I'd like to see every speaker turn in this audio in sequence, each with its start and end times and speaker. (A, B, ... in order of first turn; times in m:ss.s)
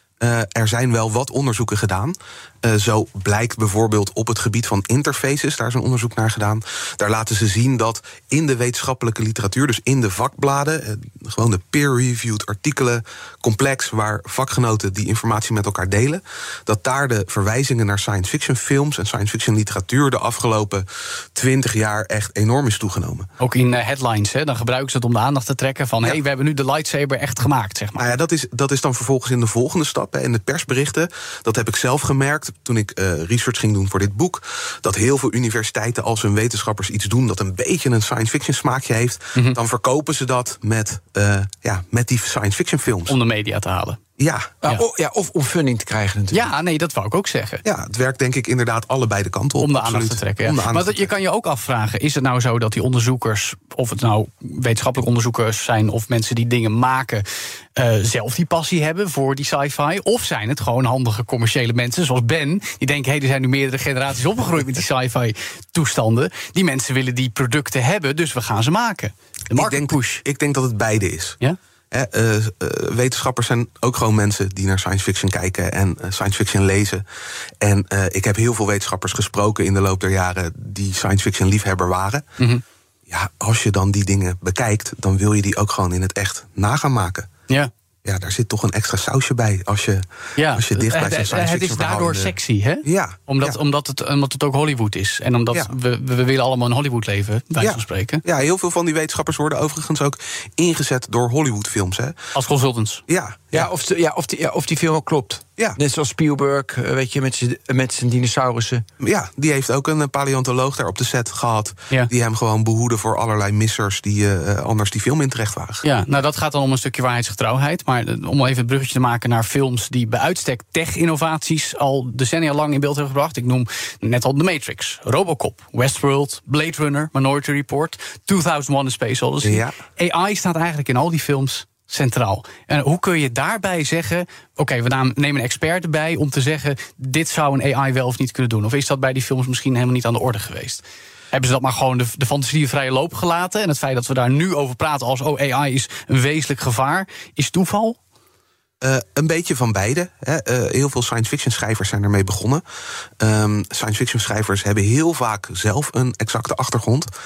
0:00.2-0:23.3 A
0:23.4-0:28.0 B
0:28.0-0:43.2 A
0:43.1-0:44.0 B
0:44.2-0:44.6 A
0:44.6-0:46.5 C
0:46.3-0:47.6 B
0:47.6-0:51.1 A
0:49.6-0:57.2 B
0:57.8-1:10.2 B
1:09.5-1:11.4 A
1:11.9-1:17.0 A
1:17.6-1:22.2 A
1:23.1-1:27.3 A
1:28.0-1:33.6 A
1:30.4-1:38.2 B
1:37.6-1:42.2 A
1:42.3-1:43.0 B
1:43.1-1:43.7 A
1:43.5-1:48.8 C
1:49.0-1:55.8 A
1:55.8-2:28.0 B
2:09.4-2:09.8 A
2:28.8-2:32.6 A
2:33.2-2:37.1 A